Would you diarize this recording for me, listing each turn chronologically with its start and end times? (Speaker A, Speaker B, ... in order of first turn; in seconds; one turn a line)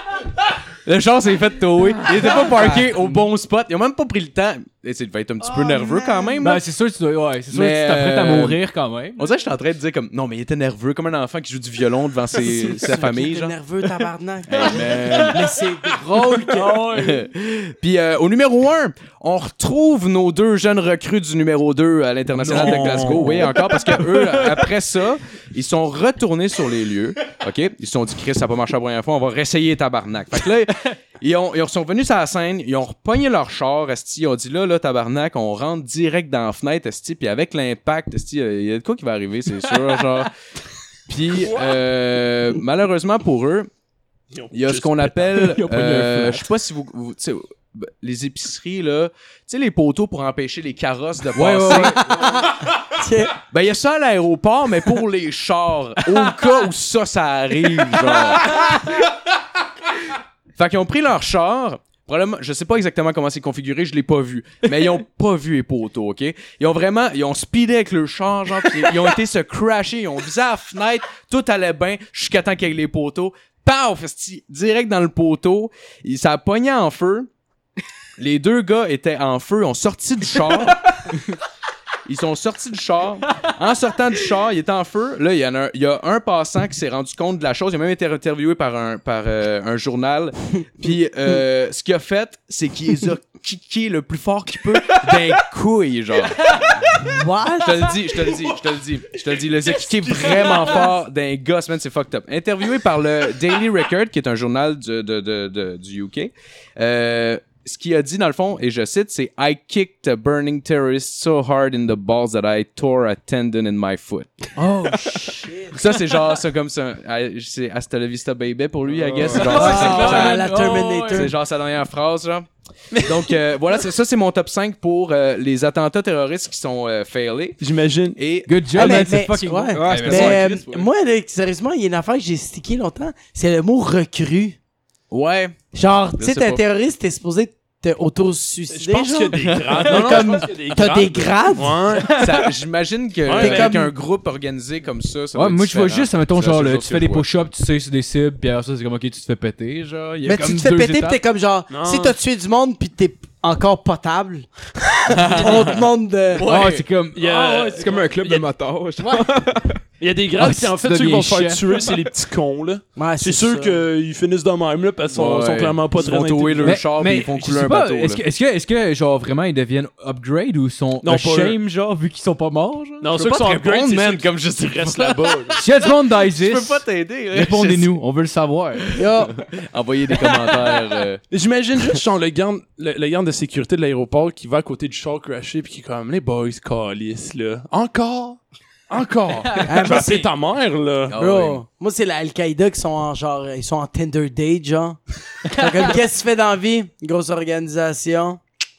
Speaker A: 0.8-6.6
Speaker B: 2.1-3.2
Speaker C: 5.4-6.4
Speaker B: 6.4-9.2
Speaker A: 7.5-8.6
Speaker A: 9.2-13.6
Speaker C: 12.3-16.9
Speaker A: 14.5-15.5
Speaker B: 16.5-17.3
Speaker A: 16.9-40.3
Speaker D: 22.4-23.5
Speaker B: 22.5-23.5
Speaker A: 41.1-43.7
Speaker D: 44.3-45.6
Speaker A: 44.5-52.0
Speaker B: 45.4-46.5
Speaker B: 51.3-52.3
Speaker C: 51.7-53.4
Speaker A: 53.5-58.7
Speaker A: 60.6-77.3
Speaker A: 78.2-81.2
Speaker A: 82.1-96.9
Speaker C: 96.9-98.0
Speaker A: 97.6-114.5
Speaker D: 99.8-100.9
Speaker B: 114.6-115.5
Speaker C: 115.1-115.8
Speaker A: 115.7-120.5
Speaker E: 119.0-119.6
Speaker B: 119.2-121.3
Speaker C: 119.3-121.3
Speaker A: 121.1-127.6
Speaker D: 123.0-123.2
Speaker D: 127.6-128.2
Speaker A: 128.2-129.1
Speaker B: 128.5-130.5
Speaker C: 128.7-134.6
Speaker E: 129.7-130.9
Speaker A: 135.1-135.6
Speaker C: 135.7-142.0
Speaker A: 136.2-136.6
Speaker D: 138.7-142.2
Speaker A: 139.3-140.3
Speaker A: 142.1-147.4
Speaker B: 142.1-142.4
Speaker D: 143.3-143.8
Speaker C: 143.3-143.9
Speaker B: 145.3-151.2
Speaker C: 150.2-156.5
Speaker D: 151.7-152.2
Speaker A: 155.1-155.8
Speaker A: 156.3-156.9
Speaker B: 156.4-157.9
Speaker D: 157.2-158.5
Speaker E: 157.7-159.8
Speaker C: 159.0-159.2
Speaker D: 160.0-166.8
Speaker B: 160.4-161.8
Speaker C: 162.9-163.8
Speaker A: 165.1-168.2
Speaker B: 166.6-173.1
Speaker D: 171.0-171.6
Speaker D: 173.0-175.6
Speaker A: 173.1-175.6
Speaker B: 175.6-179.0
Speaker A: 176.2-177.9
Speaker C: 178.9-179.4
Speaker A: 179.4-181.2
Speaker D: 181.3-191.1
Speaker C: 189.7-190.3
Speaker A: 191.1-191.6
Speaker C: 191.1-198.4